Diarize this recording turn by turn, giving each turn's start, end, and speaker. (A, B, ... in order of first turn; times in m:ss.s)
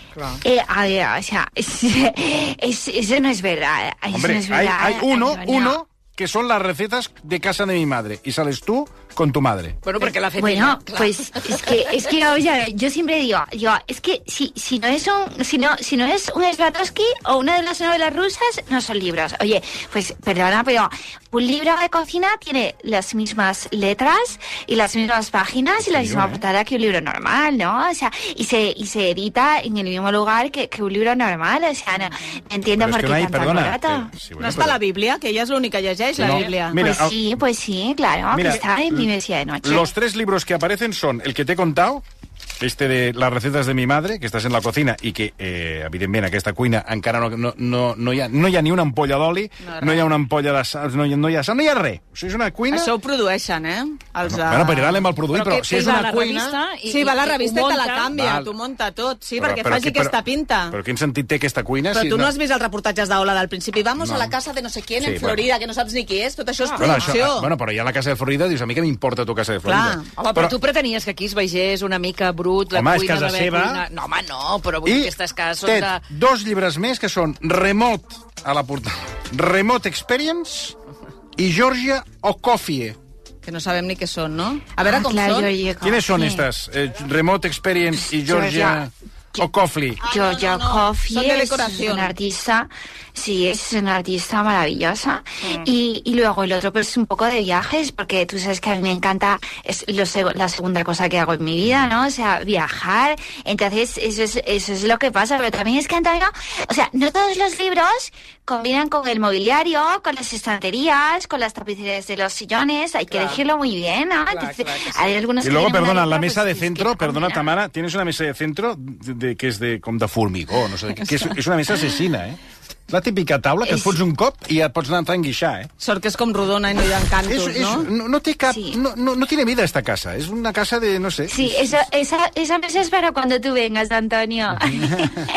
0:00.4-0:05.8 A
0:04.1-0:09.8 B
0:09.8-0:12.0 C
0:10.3-0:34.1 A
0:25.8-0:26.4 B
0:32.8-0:34.8 B
0:34.4-0:36.8 D
0:36.2-0:37.4 B
0:36.8-0:39.9 A
0:38.3-0:39.1 B
0:39.6-0:42.0 B
0:42.6-0:52.9 B
0:49.6-0:50.1 D
0:52.7-0:55.1 D
0:54.2-0:56.6 B
0:55.3-0:58.1 C
0:56.8-1:00.8 D
0:58.1-0:58.5 B
0:59.4-1:00.2 B
1:00.7-1:02.3 B
1:01.9-1:07.5 D
1:04.0-1:04.3 B
1:05.0-1:05.4 B
1:06.6-1:07.2 C
1:06.8-1:10.6 B
1:09.6-1:10.1 D
1:10.2-1:16.0 C
1:12.7-1:13.8 B
1:14.8-1:20.8 B
1:21.4-1:23.0 B
1:23.4-1:25.5 D
1:24.8-1:26.4 A
1:25.8-1:30.0 B
1:28.2-1:28.8 A
1:30.0-1:32.1 D
1:30.0-1:57.4 A
1:53.1-1:53.4 C
1:54.3-1:55.0 C
1:55.4-2:05.7 B
2:03.6-2:04.0 A
2:05.8-2:07.9 D
2:07.2-2:11.4 B
2:08.5-2:08.8 A
2:11.3-2:15.1 A
2:14.7-2:15.2 B